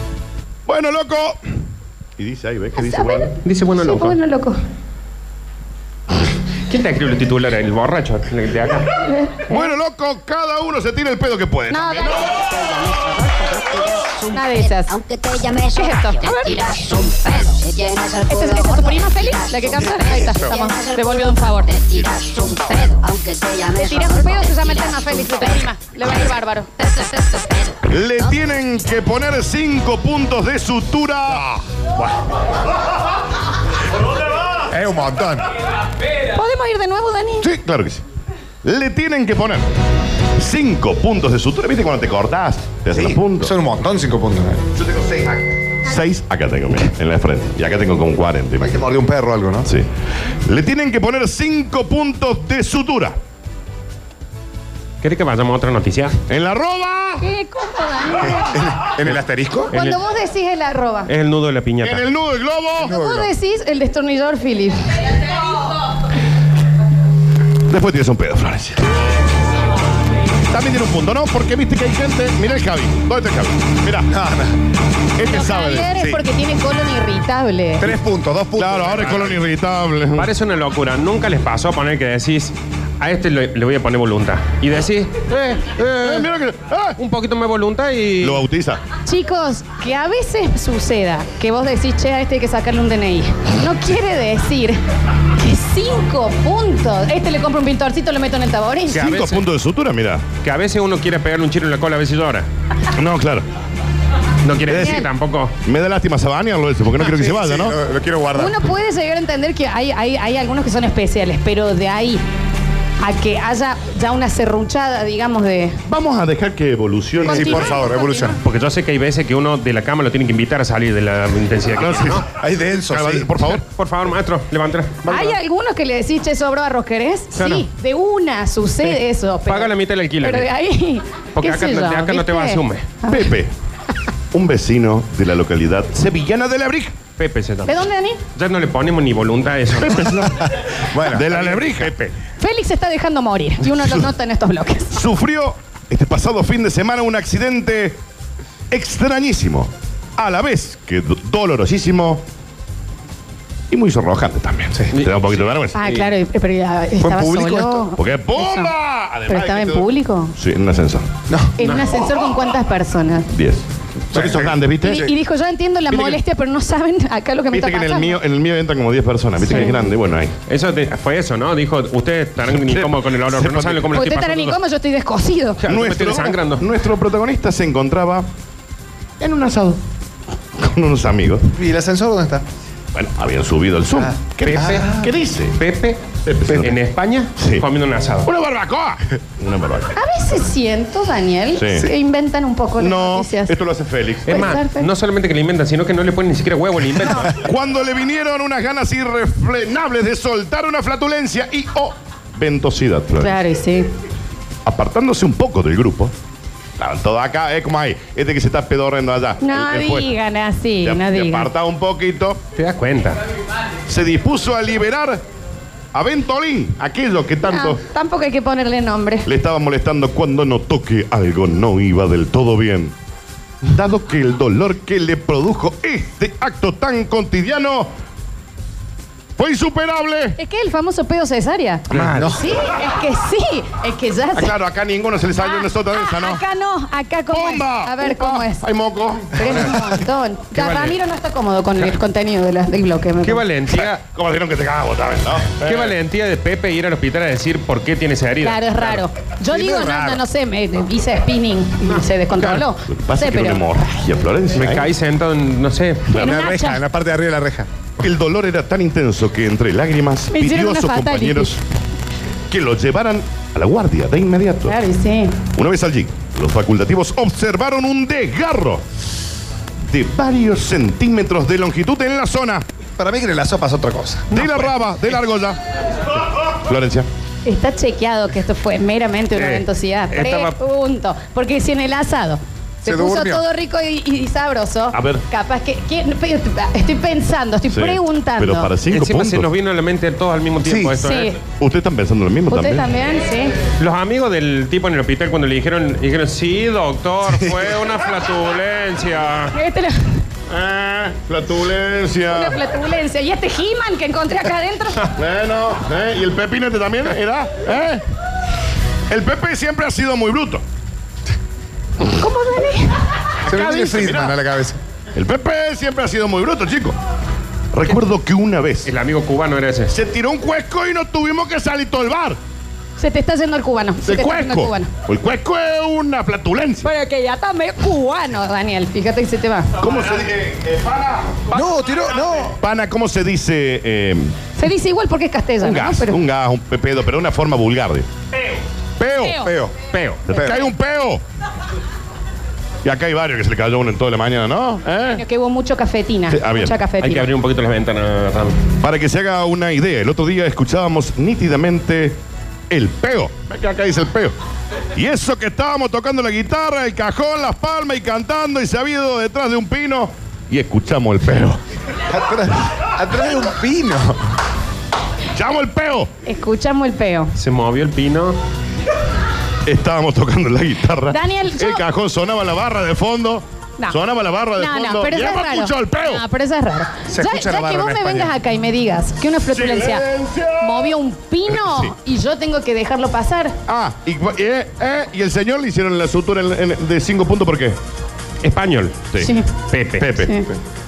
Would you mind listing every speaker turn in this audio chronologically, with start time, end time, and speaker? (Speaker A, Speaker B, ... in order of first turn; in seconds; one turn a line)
Speaker A: 0.7-1.4
Speaker A: 2.2-3.3
Speaker B: 2.8-4.6
Speaker C: 3.4-4.2
Speaker C: 6.7-8.9
Speaker B: 9.0-9.7
Speaker A: 9.5-12.3
Speaker B: 11.7-15.0
Speaker D: 14.9-19.0
Speaker B: 15.6-17.6
Speaker B: 18.3-21.9
Speaker D: 19.6-24.7
Speaker B: 22.5-22.9
Speaker B: 23.7-27.5
Speaker A: 27.9-31.5
Speaker E: 34.7-35.5
Speaker B: 36.3-37.5
Speaker A: 37.4-38.0
Speaker A: 38.6-39.6
Speaker A: 40.4-43.5
Speaker E: 42.9-45.4
Speaker A: 45.8-48.9
Speaker E: 48.6-49.7
Speaker A: 50.4-53.1
Speaker C: 55.0-56.2
Speaker A: 56.3-57.3
Speaker B: 57.2-58.7
Speaker E: 58.2-59.7
Speaker C: 59.7-60.0
Speaker B: 59.7-61.1
Speaker C: 61.0-62.0
Speaker A: 61.8-62.9
Speaker E: 62.8-63.3
Speaker B: 62.8-65.3
Speaker A: 67.7-68.8
Speaker A: 70.5-74.1
Speaker E: 74.1-74.6
Speaker A: 75.2-76.0
Speaker B: 75.2-77.9
Speaker E: 75.9-76.2
Speaker E: 77.8-79.4
Speaker A: 78.5-80.3
Speaker C: 80.2-86.2
Speaker A: 85.8-87.0
Speaker C: 87.0-88.4
Speaker A: 88.2-88.8
Speaker B: 89.0-94.8
Speaker B: 95.3-99.1
Speaker A: 98.9-100.2
Speaker C: 98.9-99.4
Speaker C: 100.4-102.5
Speaker A: 102.9-103.5
Speaker C: 104.4-105.5
Speaker A: 104.7-105.1
Speaker B: 104.7-105.0
Speaker A: 105.6-107.8
Speaker E: 107.0-108.6
Speaker B: 108.3-112.2
Speaker B: 113.0-115.8
Speaker A: 115.9-117.8
Speaker E: 117.2-118.4
Speaker B: 117.2-118.4
Speaker C: 118.4-122.2
Speaker A: 121.8-122.2
Speaker E: 122.3-123.5
Speaker A: 122.9-123.6
Speaker C: 123.6-125.4
Speaker B: 125.0-133.3
Speaker C: 127.3-127.7
Speaker C: 128.8-130.5
Speaker C: 131.3-132.9
Speaker A: 133.1-133.5
Speaker A: 134.3-137.0
Speaker C: 137.2-140.3
Speaker B: 137.7-138.2
Speaker A: 139.8-141.9
Speaker E: 140.8-141.2
Speaker C: 141.3-142.1
Speaker B: 142.4-145.0
Speaker A: 144.9-148.0
Speaker A: 148.7-152.2
Speaker A: 153.7-155.8
Speaker C: 154.9-156.1
Speaker B: 155.7-158.7
Speaker E: 157.0-157.9
Speaker A: 157.9-161.1
Speaker B: 159.3-160.3
Speaker E: 161.3-161.5
Speaker B: 161.6-163.3
Speaker C: 161.6-161.9
Speaker A: 163.3-165.1
Speaker E: 164.1-165.1
Speaker B: 164.8-168.2
Speaker A: 165.9-166.2
Speaker A: 167.5-170.3
Speaker B: 169.4-169.8
Speaker C: 170.5-174.6
Speaker A: 172.4-174.0
Speaker B: 173.9-175.6
Speaker C: 175.6-176.7
Speaker A: 175.7-178.2
Speaker A: 179.2-179.8
Speaker A: 180.6-181.5
Speaker E: 181.5-182.4
Speaker A: 182.9-185.6
Speaker C: 184.4-184.9
Speaker E: 184.5-184.9
Speaker C: 185.6-188.3
Speaker A: 186.2-186.8
Speaker A: 187.4-187.6
Speaker A: 188.2-189.9
Speaker B: 189.9-193.5
Speaker A: 191.5-191.9
Speaker A: 192.8-194.6
Speaker B: 194.2-194.9
Speaker C: 194.3-197.4
Speaker A: 197.2-203.3
Speaker B: 203.2-203.9
Speaker A: 204.6-206.1
Speaker A: 206.8-210.1
Speaker B: 209.4-211.5
Speaker A: 210.8-212.4
Speaker C: 212.6-213.2
Speaker A: 213.9-215.2
Speaker A: 215.9-217.8
Speaker B: 217.5-219.3
Speaker A: 219.2-222.9
Speaker A: 223.6-227.9
Speaker A: 229.4-230.4
Speaker B: 230.4-234.5
Speaker C: 231.9-232.3
Speaker E: 231.9-232.4
Speaker A: 234.3-236.4
Speaker B: 235.4-238.7
Speaker A: 237.3-239.8
Speaker B: 239.3-243.4
Speaker C: 240.5-240.9
Speaker C: 243.2-244.0
Speaker A: 243.7-246.0
Speaker C: 245.6-249.0
Speaker B: 248.4-253.7
Speaker E: 249.5-250.2
Speaker C: 251.9-252.6
Speaker A: 252.4-254.9
Speaker C: 254.5-256.2
Speaker B: 256.1-256.8
Speaker E: 256.1-257.7
Speaker A: 258.0-261.6
Speaker B: 260.3-261.5
Speaker A: 262.5-264.8
Speaker B: 264.6-265.4
Speaker A: 265.5-268.8
Speaker A: 269.9-272.6
Speaker E: 273.0-274.4
Speaker A: 274.3-275.6
Speaker A: 276.3-277.1
Speaker B: 277.4-288.7
Speaker C: 279.4-280.6
Speaker E: 282.8-283.4
Speaker A: 284.9-285.2
Speaker A: 287.7-289.5
Speaker C: 288.9-291.3
Speaker E: 290.6-290.9
Speaker B: 291.0-291.4
Speaker A: 291.6-292.9
Speaker B: 292.5-293.6
Speaker C: 293.8-299.6
Speaker B: 299.5-300.2
Speaker A: 300.5-302.6
Speaker B: 302.3-305.1
Speaker A: 305.1-308.0
Speaker A: 309.1-310.6
Speaker B: 312.0-313.0
Speaker A: 313.4-314.4
Speaker E: 313.4-314.8
Speaker A: 315.1-317.0
Speaker A: 317.7-318.9
Speaker C: 318.9-319.9
Speaker A: 319.9-322.4
Speaker B: 323.0-324.9
Speaker A: 324.0-326.9
Speaker B: 326.8-329.7
Speaker A: 329.8-331.8
Speaker E: 331.5-332.6
Speaker A: 332.5-334.3
Speaker B: 334.6-336.2
Speaker A: 335.6-338.1
Speaker A: 339.0-339.5
Speaker B: 339.2-339.5
Speaker E: 339.4-339.8
Speaker C: 339.9-340.2
Speaker E: 340.3-340.6
Speaker A: 340.3-341.2
Speaker A: 342.8-345.2
Speaker B: 345.1-347.3
Speaker A: 346.3-346.8
Speaker C: 347.0-348.6
Speaker A: 348.8-352.2
Speaker A: 352.7-354.3
Speaker A: 354.9-361.6
Speaker E: 362.1-364.3
Speaker A: 365.3-366.1
Speaker B: 366.2-367.3
Speaker C: 367.4-368.4
Speaker A: 369.6-376.2
Speaker B: 371.1-371.8
Speaker B: 374.6-380.1
Speaker E: 377.1-378.3
Speaker A: 379.5-380.9
Speaker B: 380.6-383.5
Speaker A: 381.5-381.9
Speaker A: 383.7-387.8
Speaker C: 388.4-389.1
Speaker B: 389.2-389.5
Speaker C: 389.6-390.1
Speaker A: 390.0-390.4
Speaker B: 390.2-390.5